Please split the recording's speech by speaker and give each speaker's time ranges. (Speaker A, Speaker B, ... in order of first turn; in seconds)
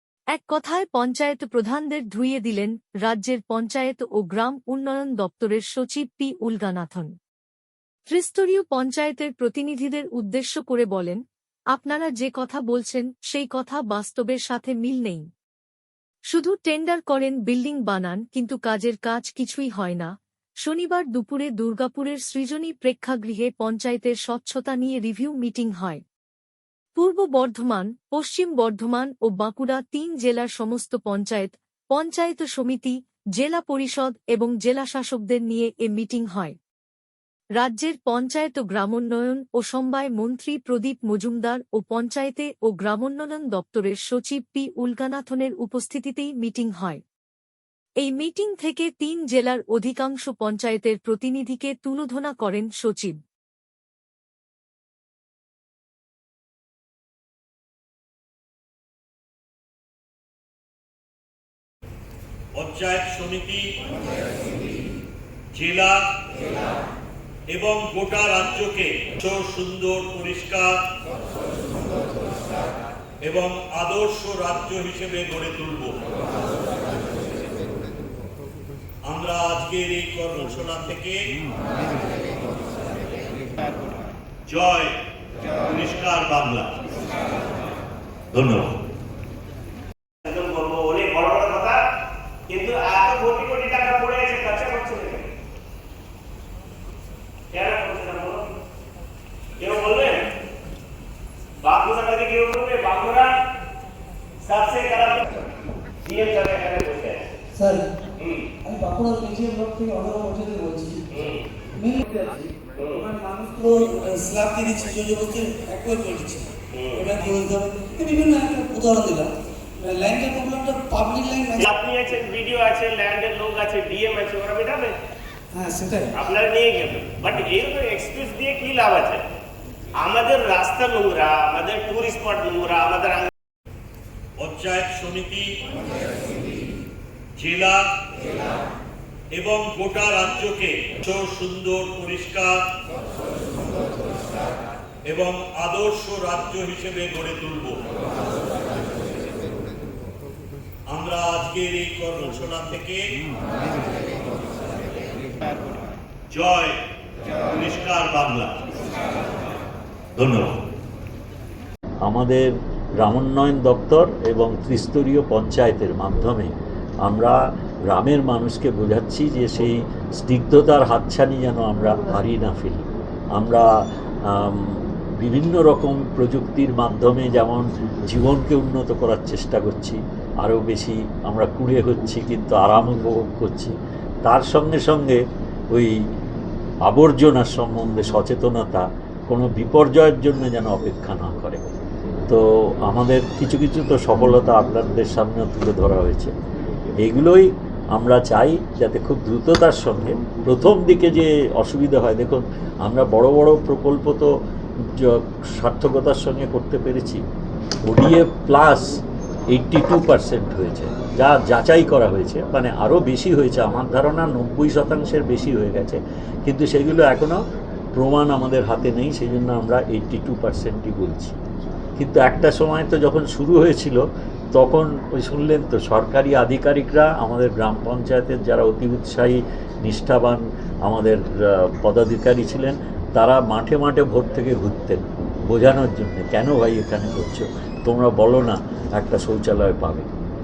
Speaker A: 0.3-7.1, 8.1-11.2, 11.7-15.3, 16.3-26.0, 27.0-36.6, 37.6-47.0, 48.0-53.2
Speaker B: 62.6-63.6, 65.5-66.0, 67.5-70.7, 73.2-75.9, 79.1-81.2, 84.5-84.9, 85.7-86.7, 88.3-88.7, 134.4-135.4, 137.4-137.8, 139.3-142.5, 145.1-147.8, 150.9-153.0, 156.3-156.8, 157.5-158.5, 160.2-160.5
Speaker C: 90.2-91.8, 92.5-95.3, 97.5-98.4, 99.6-100.2, 101.6-103.3, 104.5-105.5, 106.0-107.3, 108.2-108.5, 111.1-111.5, 112.8-113.1, 116.7-117.2, 121.5-124.9, 126.2-129.2, 130.0-133.3
Speaker D: 107.6-107.8, 108.6-111.0, 111.8-112.3, 113.0-119.3, 119.8-121.6, 125.6-126.1
Speaker E: 162.1-162.5, 163.0-167.4, 167.9-172.8, 173.4-173.7, 174.3-183.7, 184.2-185.2, 186.9-191.7, 192.3-196.3, 197.0-204.3, 205.0-207.2, 207.8-209.0, 209.5-217.4, 217.9-221.4, 222.0-224.0, 224.5-240.1